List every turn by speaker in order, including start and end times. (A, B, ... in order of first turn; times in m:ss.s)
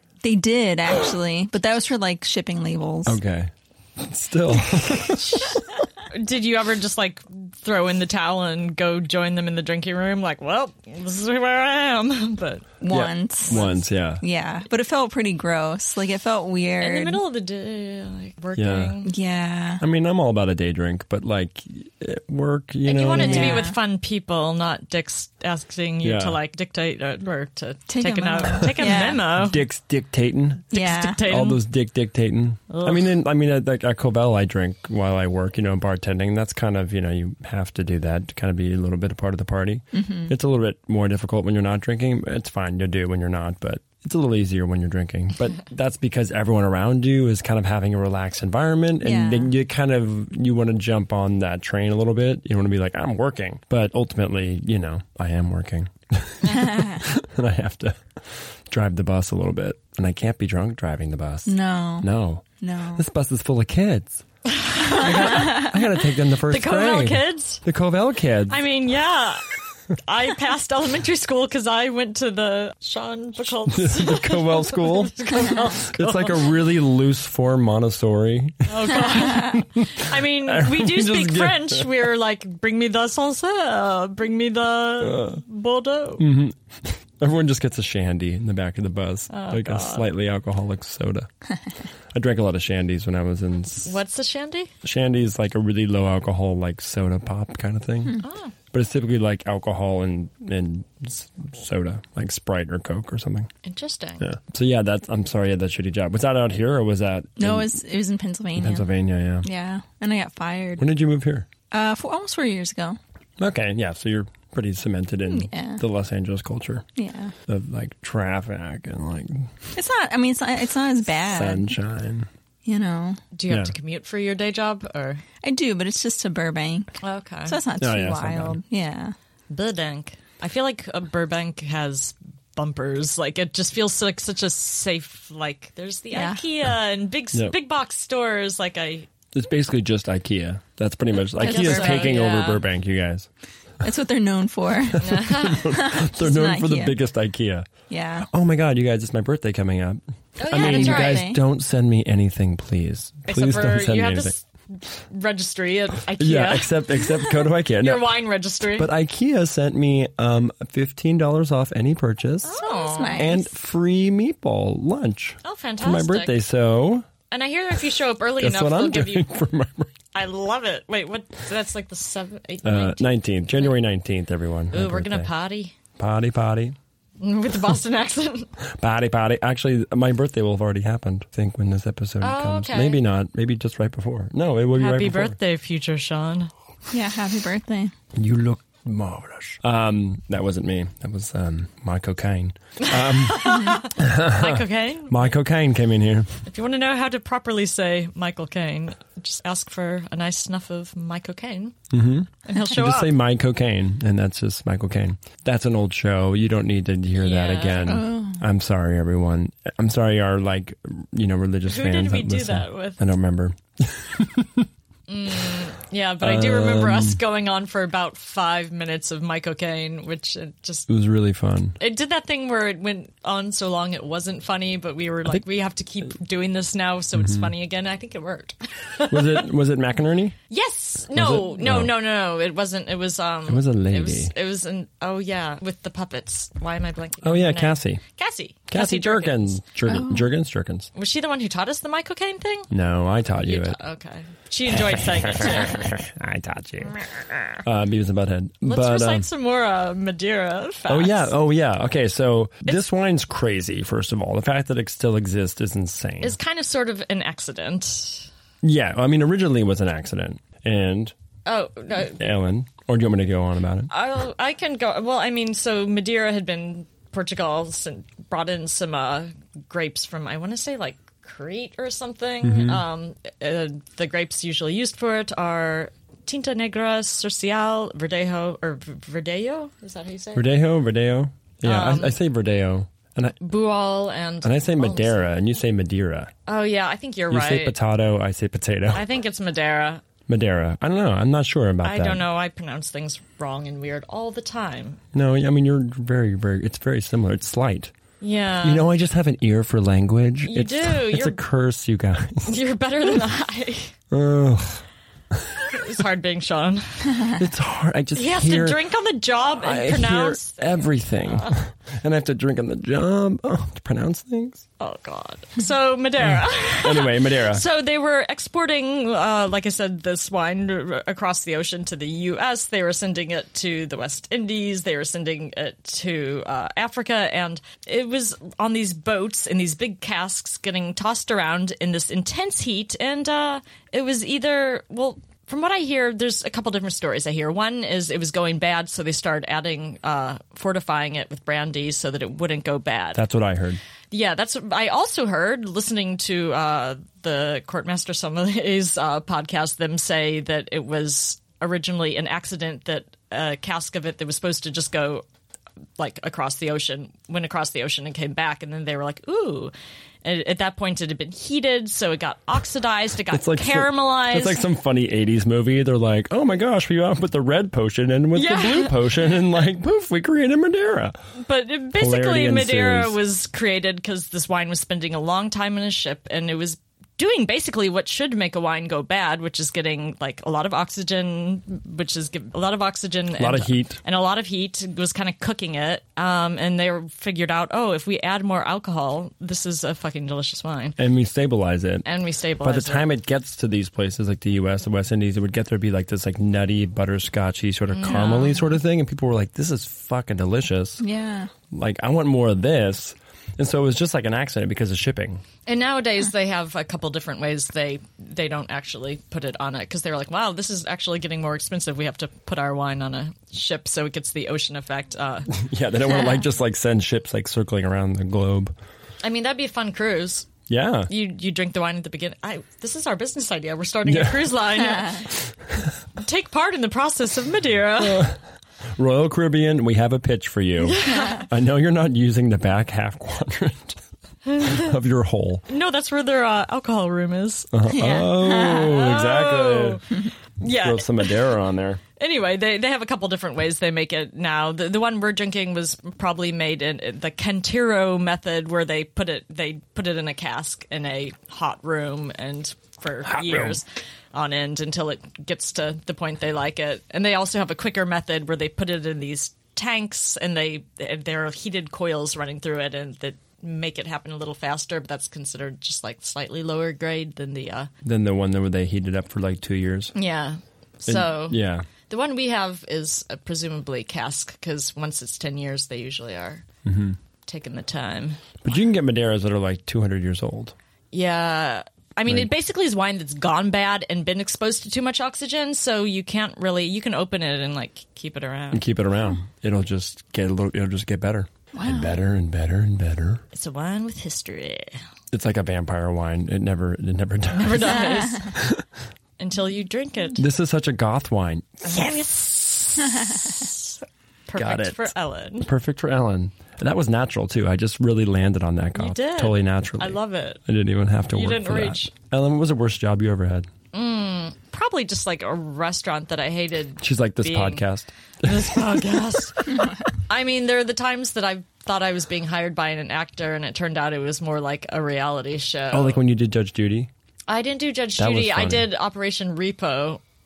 0:00.2-0:03.2 A
0:03.1-0:05.6 B
0:05.1-0:12.7 C
0:12.8-0:17.2 A
0:12.9-0:14.2 B
0:13.5-0:13.8 C
0:16.8-0:19.1 C
0:18.6-0:18.9 B
0:19.0-0:19.8 A
0:19.8-0:23.7 B
0:22.8-0:29.6 C
0:23.1-0:23.8 A
0:26.0-0:26.4 B
0:27.9-0:29.2 A
0:28.8-0:30.7 B
0:30.7-0:31.2 A
0:30.7-0:31.6 C
0:31.2-1:02.4 B
0:32.7-0:33.1 C
0:39.9-0:40.3 A
0:49.0-0:49.5 A
0:56.5-0:57.1 A
1:01.5-1:02.1 A
1:02.6-1:03.1 A
1:03.0-1:04.2 B
1:04.4-1:05.7 C
1:04.9-1:05.7 A
1:04.9-1:08.6 B
1:06.4-1:07.6 C
1:08.5-1:09.5 C
1:10.0-1:16.6 C
1:13.6-1:21.9 B
1:18.7-1:26.3 C
1:19.1-1:19.4 A
1:25.0-1:25.4 B
1:26.2-1:31.3 B
1:29.3-1:30.1 C
1:32.1-1:34.0 B
1:33.8-1:34.7 C
1:34.8-1:38.2 B
1:38.2-1:38.5 C
1:38.7-1:43.5 B
1:43.6-1:44.3 C
1:44.2-1:47.8 B
1:47.4-1:48.9 A
1:48.6-1:49.5 B
1:49.4-1:50.8 A
1:50.8-1:51.5 B
1:51.7-1:53.0 A
1:53.4-1:56.9 B
1:55.3-1:55.8 A
1:57.0-1:57.4 A
1:57.5-1:59.7 B
1:59.8-2:01.8 A
2:01.3-2:02.3 B
2:02.6-2:03.2 A
2:03.3-2:05.2 C
2:03.5-2:03.7 B
2:05.4-2:06.9 A
2:07.0-2:07.6 C
2:07.4-2:09.1 A
2:07.8-2:08.6 B
2:09.5-2:19.1 C
2:16.1-2:16.4 A
2:19.3-2:23.3 B
2:21.4-2:22.1 A
2:21.4-2:22.6 C
2:23.8-2:27.0 A
2:24.9-2:27.7 B
2:25.0-2:25.7 C
2:27.9-2:28.3 A
2:28.3-2:34.3 B
2:30.4-2:31.3 C
2:30.5-2:31.4 A
2:33.3-2:37.0 C
2:36.2-2:38.2 B
2:37.8-2:38.9 C
2:38.8-2:42.6 B
2:42.4-2:43.3 C
2:42.6-2:43.5 A
2:43.2-2:47.1 B
2:45.4-2:46.4 C
2:47.3-2:49.3 C
2:48.4-2:49.9 B
2:50.1-2:53.1 C
2:52.6-2:55.3 B
2:54.7-2:55.7 C
2:56.0-2:56.8 B
2:57.2-2:58.5 C
2:58.8-3:05.4 B
3:02.2-3:03.0 C
3:04.7-3:06.5 C
3:06.9-3:07.9 A
3:08.1-3:16.4 B
3:12.8-3:15.3 C
3:16.4-3:21.8 C
3:21.9-3:34.7 B
3:22.4-3:23.1 C
3:27.2-3:28.0 C
3:27.8-3:28.4 A
3:31.7-3:33.0 C
3:35.1-3:40.9 C
3:36.2-3:37.2 B
3:40.9-3:41.8 B
3:41.8-3:49.5 C
3:47.2-3:47.5 B
3:49.1-3:50.4 B
3:50.5-3:59.6 C
3:51.1-3:52.0 B
3:53.5-3:54.3 B
3:57.2-3:58.0 B
3:58.7-4:00.9 B
3:59.9-4:00.2 A
4:00.9-4:02.7 C
4:02.7-4:03.8 B
4:03.4-4:05.9 C
4:04.7-4:07.0 B
4:07.1-4:07.3 C
4:07.6-4:09.3 B
4:08.6-4:11.3 C
4:10.9-4:16.4 B
4:16.2-4:18.3 C
4:18.6-4:21.1 B
4:21.4-4:22.2 C
4:22.2-4:23.9 B
4:23.9-4:40.5 C
4:32.4-4:32.8 B
4:40.4-4:43.4 B
4:41.6-4:42.2 C
4:43.4-4:45.2 C
4:44.4-4:46.3 B
4:46.4-4:47.8 C
4:47.3-4:49.0 B
4:48.9-4:50.0 C
4:50.3-4:52.2 B
4:51.8-4:55.0 C
4:55.1-4:57.9 B
4:58.2-4:58.9 C
4:58.6-5:03.2 B
5:00.4-5:01.4 C
5:02.4-5:03.9 C
5:04.1-5:05.8 B
5:05.6-5:07.4 C
5:07.3-5:08.8 B
5:08.1-5:11.6 C
5:09.6-5:14.6 B
5:14.8-5:43.2 C
5:16.2-5:17.6 B
5:43.1-5:43.8 B
5:44.1-5:55.2 C
5:56.0-5:59.7 C
6:00.2-6:04.7 C
6:03.3-6:11.1 B
6:08.3-6:09.1 C
6:11.4-6:31.0 C
6:12.0-6:13.2 B
6:23.4-6:24.0 B
6:31.0-6:32.1 B
6:32.0-6:33.1 C
6:32.6-6:41.0 B
6:37.9-6:38.7 C
6:41.0-6:41.5 A
6:41.7-6:45.4 B
6:45.6-6:55.5 C
6:55.5-6:58.7 B
6:59.2-7:00.5 C
7:00.7-7:01.1 B
7:01.1-7:05.3 C
7:04.1-7:04.6 B
7:06.2-7:08.3 C
7:08.0-7:08.4 B
7:09.0-7:14.0 B
7:10.9-7:11.4 C
7:14.4-7:14.9 C
7:14.6-7:15.6 B
7:15.7-7:17.7 C
7:17.7-7:20.0 B
7:17.9-7:19.0 A
7:18.7-7:21.3 C
7:20.6-7:22.0 B
7:22.2-7:47.9 C
7:33.2-7:33.8 B
7:48.0-7:50.1 B
7:50.1-7:56.6 C
7:51.1-7:51.9 B
7:56.8-7:57.2 B
7:57.4-7:58.5 C
7:58.6-8:00.8 B
8:01.1-8:08.8 C
8:08.7-8:13.4 B
8:11.7-8:12.2 A
8:13.5-8:15.0 C
8:15.3-8:18.9 B
8:17.5-8:18.6 C
8:19.4-8:20.4 C
8:20.4-8:22.0 B
8:21.8-8:25.7 C
8:24.6-8:33.7 B
8:28.9-8:30.6 C
8:31.3-8:32.1 C
8:33.9-8:37.8 C
8:37.0-8:39.4 B
8:38.4-8:46.2 C
8:45.9-8:47.1 B
8:47.5-8:50.2 C
8:48.2-8:48.9 B